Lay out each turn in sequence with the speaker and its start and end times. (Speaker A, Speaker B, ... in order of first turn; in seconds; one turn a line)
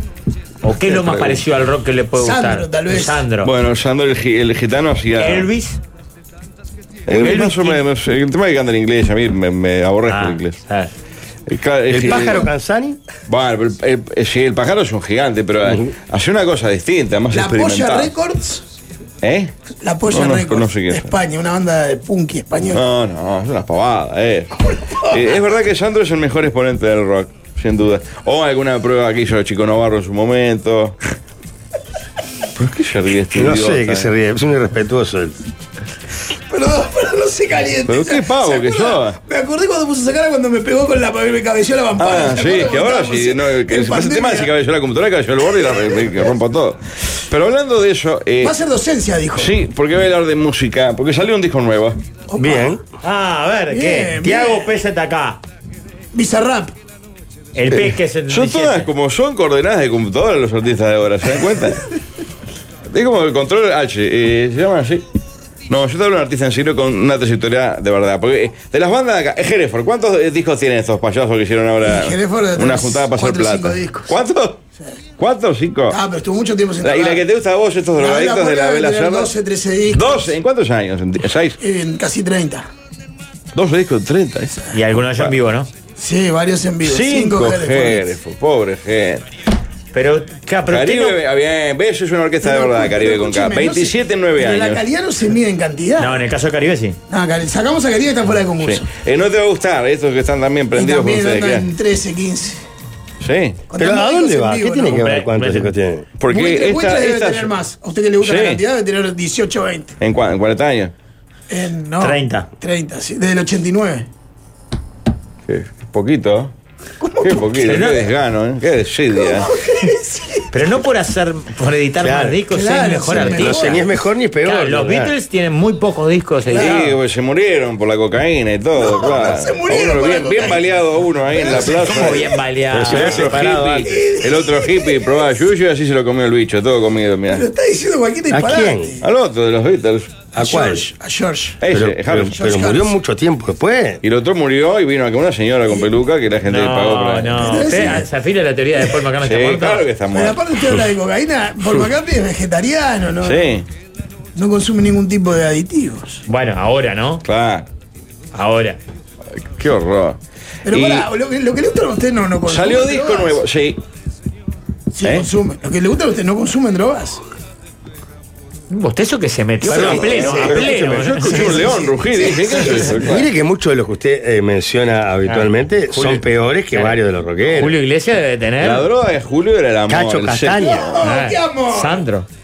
Speaker A: 0.6-3.5
Speaker B: 0.9-1.4
Speaker C: 2.2-3.2
Speaker B: 3.4-5.5
Speaker A: 5.2-5.8
Speaker B: 7.1-10.6
Speaker A: 7.1-7.8
Speaker A: 10.1-10.9
Speaker B: 11.5-12.5
Speaker D: 11.9-13.0
Speaker B: 13.3-18.1
Speaker C: 17.3-18.6
Speaker B: 19.2-19.5
Speaker C: 19.8-22.8
Speaker B: 20.1-21.1
Speaker B: 22.7-31.0
Speaker B: 32.6-34.1
Speaker D: 33.3-35.4
Speaker C: 36.5-44.5
Speaker B: 37.9-39.2
Speaker B: 42.0-48.5
Speaker C: 48.4-49.5
Speaker B: 49.4-52.0
Speaker C: 52.3-52.8
Speaker D: 52.4-52.8
Speaker A: 53.0-55.4
Speaker C: 53.7-54.7
Speaker C: 56.1-56.8
Speaker A: 57.5-58.9
Speaker B: 57.7-61.9
Speaker B: 62.9-65.0
Speaker B: 65.7-74.6
Speaker C: 71.8-74.1
Speaker B: 75.2-76.0
Speaker C: 75.9-77.2
Speaker B: 76.8-79.3
Speaker C: 78.0-80.3
Speaker B: 79.9-81.6
Speaker C: 81.6-82.7
Speaker B: 83.5-85.3
Speaker A: 84.7-85.7
Speaker C: 86.0-88.1
Speaker B: 86.8-89.2
Speaker A: 89.9-91.2
Speaker B: 90.7-94.8
Speaker C: 92.4-96.2
Speaker A: 96.0-97.0
Speaker C: 97.1-98.9
Speaker B: 98.6-101.7
Speaker C: 100.7-102.6
Speaker B: 103.2-103.7
Speaker C: 103.7-105.1
Speaker D: 103.8-106.1
Speaker A: 104.9-105.8
Speaker B: 106.2-107.5
Speaker C: 106.3-110.0
Speaker B: 108.2-108.6
Speaker B: 110.0-110.9
Speaker C: 111.5-114.1
Speaker A: 112.0-112.5
Speaker B: 115.5-116.5
Speaker C: 117.1-117.5
Speaker B: 117.2-119.5
Speaker A: 117.6-118.0
Speaker C: 119.1-120.5
Speaker A: 120.5-123.8
Speaker D: 122.0-122.4
Speaker C: 122.5-123.9
Speaker D: 123.2-125.1
Speaker A: 124.4-127.0
Speaker C: 126.5-126.8
Speaker B: 126.5-137.5
Speaker C: 128.8-130.7
Speaker A: 131.7-133.9
Speaker D: 132.7-134.1
Speaker C: 133.9-135.1
Speaker C: 137.3-139.0
Speaker D: 138.3-139.0
Speaker B: 139.0-140.3
Speaker D: 140.3-140.9
Speaker C: 140.3-141.6
Speaker B: 141.6-142.4
Speaker D: 141.7-144.0
Speaker C: 142.2-143.0
Speaker B: 144.0-147.6
Speaker A: 146.5-149.8
Speaker C: 147.4-148.1
Speaker B: 149.2-150.4
Speaker C: 150.1-153.5
Speaker B: 153.2-153.7
Speaker C: 154.4-156.2
Speaker A: 156.3-157.2
Speaker B: 157.2-157.7
Speaker A: 158.3-158.8
Speaker B: 159.5-160.2
Speaker C: 160.7-163.4
Speaker B: 160.7-161.1
Speaker B: 162.5-163.8
Speaker C: 164.9-167.2
Speaker A: 168.7-171.5
Speaker B: 169.6-173.3
Speaker D: 169.7-171.5
Speaker C: 171.4-173.0
Speaker D: 173.0-177.8
Speaker A: 175.2-178.9
Speaker B: 178.6-181.0
Speaker D: 179.9-180.9
Speaker C: 180.6-182.1
Speaker A: 181.0-182.3